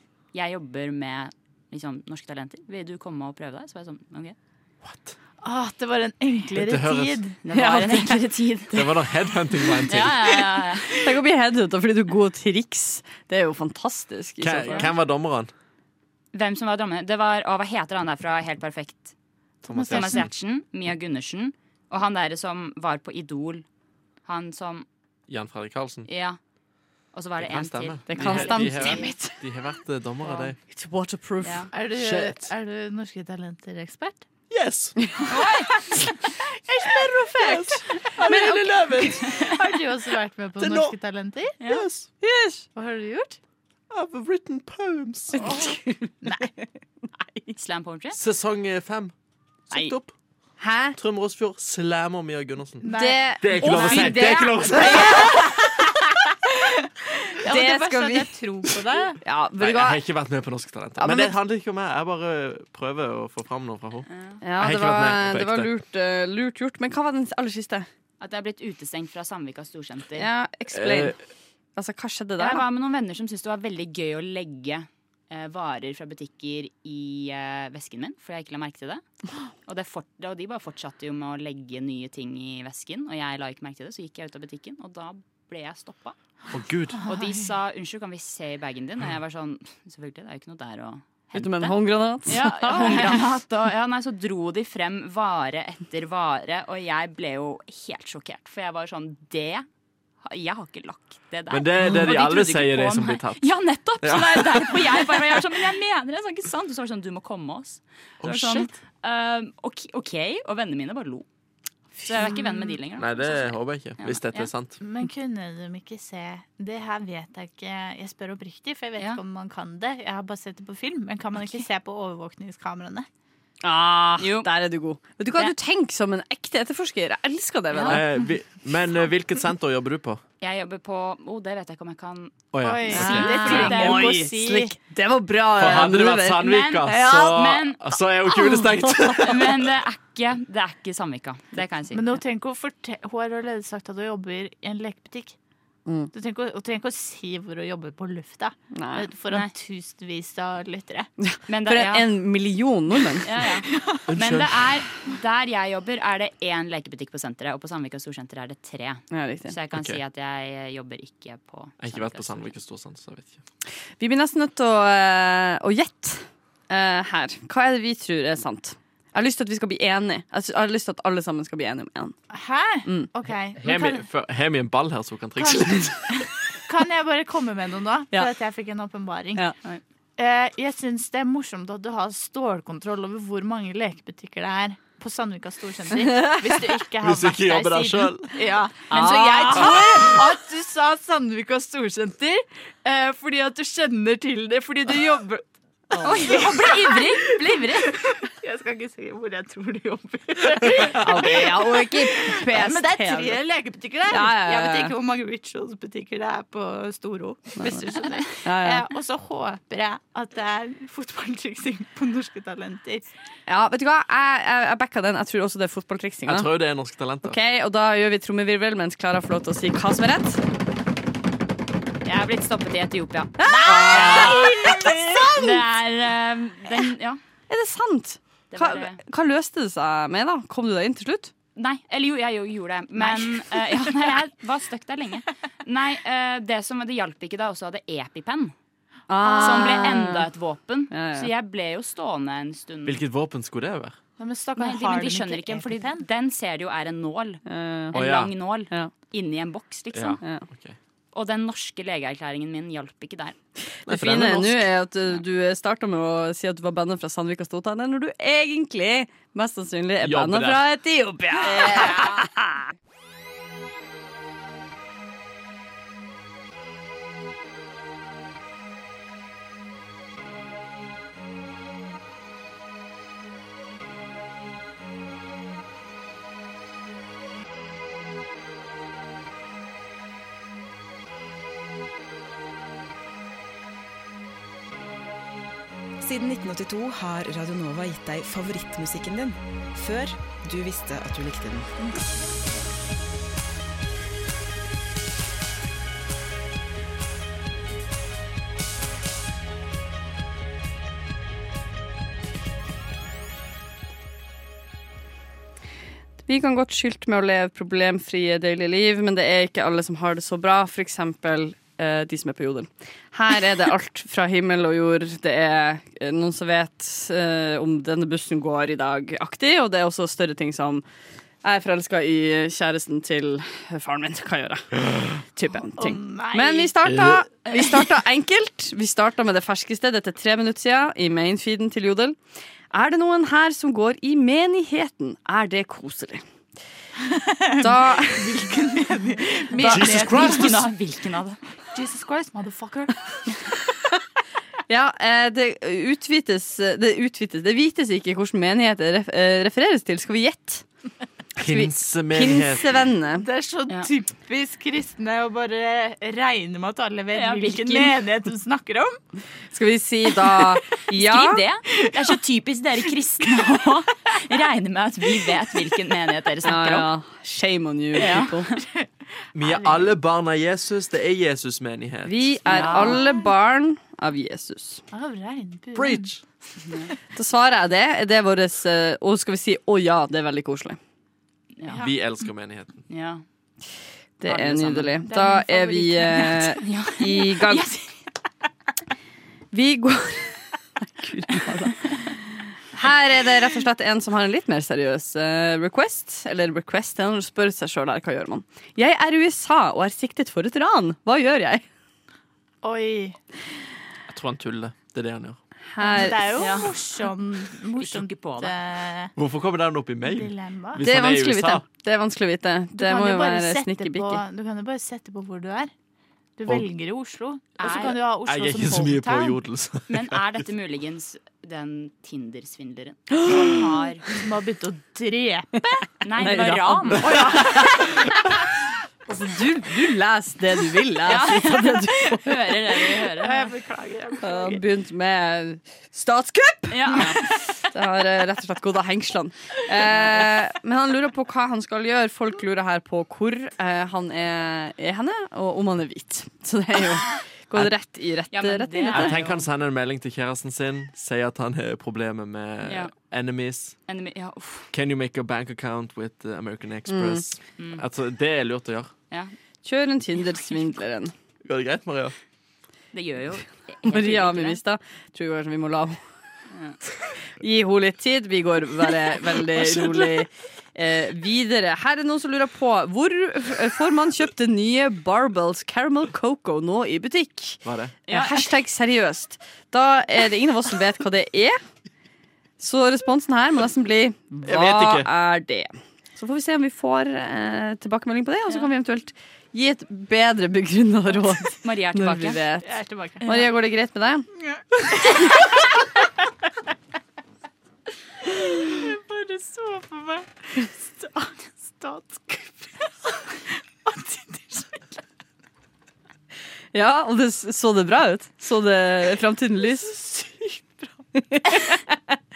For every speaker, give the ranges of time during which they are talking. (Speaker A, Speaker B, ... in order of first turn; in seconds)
Speaker A: 0.3-4.3, 7.4-9.1, 9.9-11.0, 16.3-19.1, 19.9-23.6, 24.2-24.9, 26.1-26.4, 27.1-29.1, 31.4-31.7, 35.3-36.1, 38.3-39.5, 47.5-48.2, 53.6-55.1, 64.1-64.4, 68.2-70.3, 72.4-79.0, 79.6-86.2, 87.0-99.7, 100.2-111.2, 111.9-114.5, 121.4-121.6, 124.2-124.5, 127.7-128.0, 130.4-134.1, 136.4-137.8, 139.2-142.1, 151.5-152.1, 153.2-162.5, 189.0-189.6, 196.0-197.9, 222.0-227.2, 228.5-229.0, 231.5-238.5, 239.2-243.0, 244.6-247.4, 247.9-250.2, 251.1-253.3, 261.5-262.1, 339.6-341.4, 357.1-357.9, 360.9-366.9, 367.9-368.6, 372.5-373.0, 381.6-381.9, 382.9-383.2, 384.2-384.9, 386.2-387.9, 406.4-406.7, 407.8-408.5, 417.6-418.0, 419.9-424.1, 426.0-427.6, 431.0-433.5, 436.7-437.4, 448.3-449.5, 452.6-452.9, 453.9-454.7, 457.6-457.8, 462.9-464.6, 466.5-466.8, 478.1-478.5, 491.6-492.4
Speaker B: 4.8-5.1, 6.5-7.2, 8.7-10.2, 14.4-15.5, 19.6-20.3, 25.3-26.1, 27.4-30.6, 32.0-32.5, 34.5-35.1, 36.8-39.2, 40.6-40.9, 41.7-42.1, 43.9-45.4, 48.1-49.1, 49.7-50.1, 51.0-52.9, 53.4-55.3, 59.6-64.0, 64.6-65.7, 70.7-71.2, 86.5-87.0, 101.5-104.9, 108.2-108.7, 113.0-114.8, 127.8-130.2, 132.5-133.8, 135.6-139.7, 154.1-154.5, 159.7-160.0, 161.8-163.4, 173.6-176.2, 187.0-188.3, 216.2-217.3, 242.8-243.9, 247.9-248.3, 249.9-250.8, 253.9-254.7, 260.0-260.7, 339.6-340.7, 351.4-352.8, 369.3-372.7, 375.7-376.2, 381.8-382.8, 404.1-405.4, 409.1-411.6, 418.2-420.2, 448.9-453.8, 454.7-458.9, 461.4-462.1, 469.4-470.1, 477.6-477.9, 484.4-485.1
Speaker C: 5.4-7.8, 19.6-20.2, 31.7-34.2, 36.7-41.7, 42.7-43.4, 45.4-46.5, 52.8-53.7, 57.4-59.2, 87.1-87.5, 114.8-123.1, 132.6-134.7, 141.9-145.3, 146.1-151.1, 172.3-174.0, 175.4-179.4, 180.2-213.0, 223.5-225.6, 233.0-234.2, 239.3-239.8, 244.2-246.1, 325.8-326.7, 337.1-340.5, 341.7-343.0, 353.2-359.0, 363.2-363.5, 369.4-369.9, 374.9-376.1, 385.0-386.5, 402.6-403.1, 405.8-409.1, 410.0-410.8, 412.7-415.7, 416.4-419.4, 423.3-425.9, 427.0-427.7, 433.0-434.6, 492.6-493.3, 494.6-495.4, 498.4-503.2, 503.9-504.8
Speaker D: 7.5-8.1, 11.0-14.9, 28.1-29.4, 30.7-31.7, 42.2-42.6, 50.6-51.0, 52.9-55.4, 57.4-58.4, 59.2-60.0, 61.0-61.4, 64.4-67.9, 70.2-71.2, 71.8-72.6, 91.3-93.2, 123.6-128.0, 132.9-137.5, 138.3-139.0, 145.8-146.1, 148.7-149.1, 151.2-153.3, 159.1-159.5, 164.0-172.2, 186.0-186.6, 188.9-189.8, 200.9-203.4, 204.1-204.9, 208.4-208.8, 213.5-216.5, 217.2-220.4, 223.4-225.3, 227.5-231.3, 239.1-240.3, 240.9-241.3, 247.4-247.9, 250.2-250.4, 253.9-262.7, 306.2-320.8, 321.4-332.1, 332.7-336.2, 337.6-338.3, 344.7-350.6, 351.4-353.2, 359.5-361.4, 366.4-368.5, 372.0-374.8, 377.1-380.8, 384.2-387.6, 389.5-392.1, 392.7-401.6, 405.7-406.4, 410.8-414.2, 423.2-423.4, 426.2-427.6, 429.1-432.3, 434.2-449.2, 456.9-457.2, 459.6-461.1, 463.8-466.0, 467.4-481.6, 482.6-492.7, 493.2-494.3, 506.7-510.1, 511.1-511.8
Speaker E: 286.0-291.7